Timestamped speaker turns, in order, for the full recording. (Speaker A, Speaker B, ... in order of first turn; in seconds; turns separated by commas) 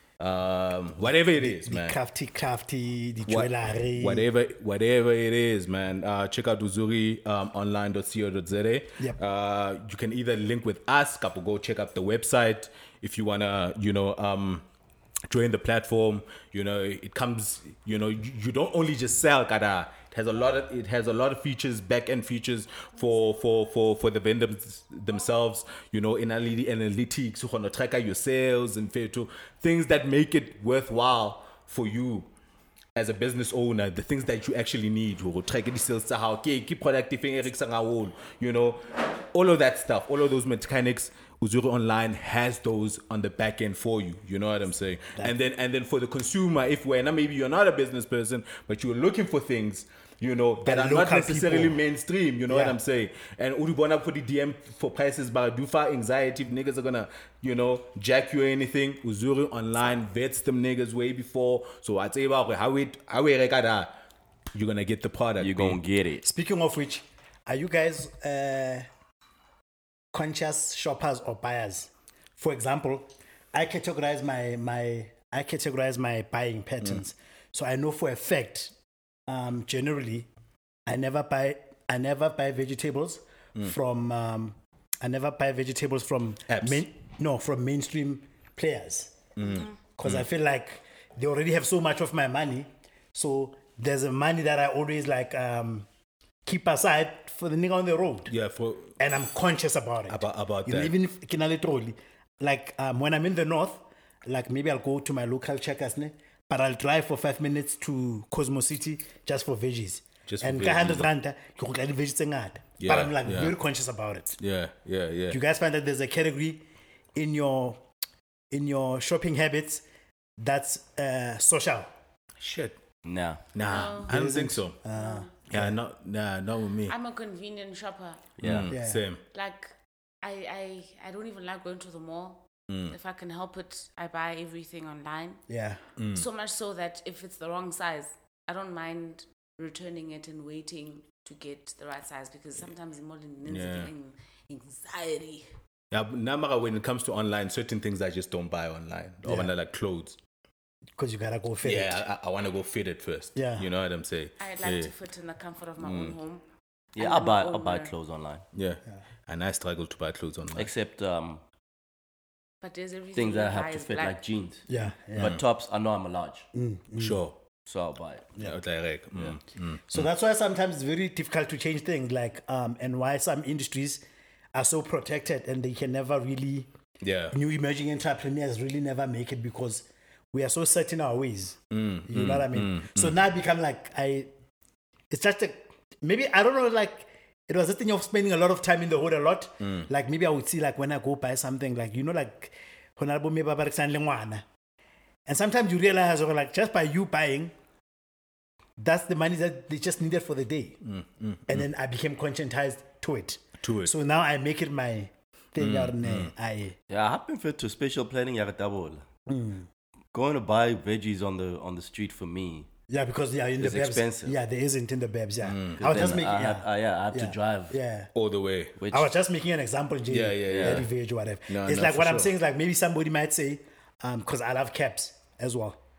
Speaker A: 0.2-2.0, Speaker B: 1.4-4.3, Speaker A: 3.2-14.6, Speaker A: 15.3-32.3, Speaker A: 32.9-63.9, Speaker B: 50.6-51.8, Speaker B: 52.5-52.8, Speaker A: 64.5-65.8, Speaker C: 65.4-66.2, Speaker B: 66.2-68.9, Speaker B: 70.1-78.7, Speaker B: 79.3-80.3, Speaker B: 80.9-89.2, Speaker A: 86.5-86.8, Speaker A: 89.3-90.3, Speaker D: 89.4-89.7, Speaker B: 90.0-95.9, Speaker B: 96.5-98.3, Speaker A: 98.3-99.0, Speaker B: 99.0-114.4, Speaker A: 100.1-100.9, Speaker A: 110.2-111.1, Speaker A: 112.8-113.5, Speaker A: 114.4-115.4, Speaker B: 115.3-117.8, Speaker B: 118.5-119.8, Speaker B: 120.4-121.9, Speaker A: 122.4-122.8, Speaker C: 123.0-123.4, Speaker A: 123.5-124.8, Speaker D: 123.6-124.1, Speaker B: 124.1-125.8, Speaker D: 124.9-125.3, Speaker A: 125.5-127.0, Speaker D: 126.9-128.3, Speaker C: 128.4-128.7, Speaker A: 128.4-129.2, Speaker B: 128.7-129.0, Speaker D: 129.3-135.4, Speaker A: 132.7-132.9, Speaker B: 135.5-135.8, Speaker A: 136.0-136.3, Speaker D: 136.1-145.5, Speaker A: 143.4-143.9, Speaker A: 145.9-150.2, Speaker B: 149.2-149.5, Speaker B: 151.0-152.0, Speaker A: 151.6-154.9, Speaker B: 153.3-153.7, Speaker D: 154.4-156.4, Speaker A: 155.8-156.2, Speaker D: 156.9-157.9, Speaker C: 156.9-158.4, Speaker A: 158.5-160.7, Speaker C: 160.5-161.4, Speaker D: 162.6-164.2, Speaker C: 163.1-164.6, Speaker B: 164.7-165.4, Speaker C: 165.2-166.5, Speaker A: 165.2-165.4, Speaker B: 166.5-167.2, Speaker A: 167.0-167.4, Speaker C: 167.7-168.3, Speaker A: 168.4-170.1, Speaker B: 169.9-174.0, Speaker B: 174.5-176.7, Speaker A: 177.0-177.3, Speaker B: 177.3-184.3, Speaker A: 181.7-183.2, Speaker B: 185.1-194.4, Speaker A: 189.6-189.9, Speaker B: 195.2-197.5, Speaker B: 198.8-200.8, Speaker A: 200.8-201.7, Speaker B: 201.5-206.8, Speaker A: 203.6-203.9, Speaker A: 205.6-206.3, Speaker C: 206.9-209.0, Speaker B: 209.3-209.7, Speaker C: 210.1-212.7, Speaker B: 212.9-218.1, Speaker C: 213.6-214.3, Speaker A: 215.4-216.2, Speaker C: 215.8-217.8, Speaker A: 218.1-218.8, Speaker C: 218.8-219.1, Speaker B: 218.9-225.8, Speaker A: 220.1-220.9, Speaker C: 220.5-220.8, Speaker A: 221.5-222.3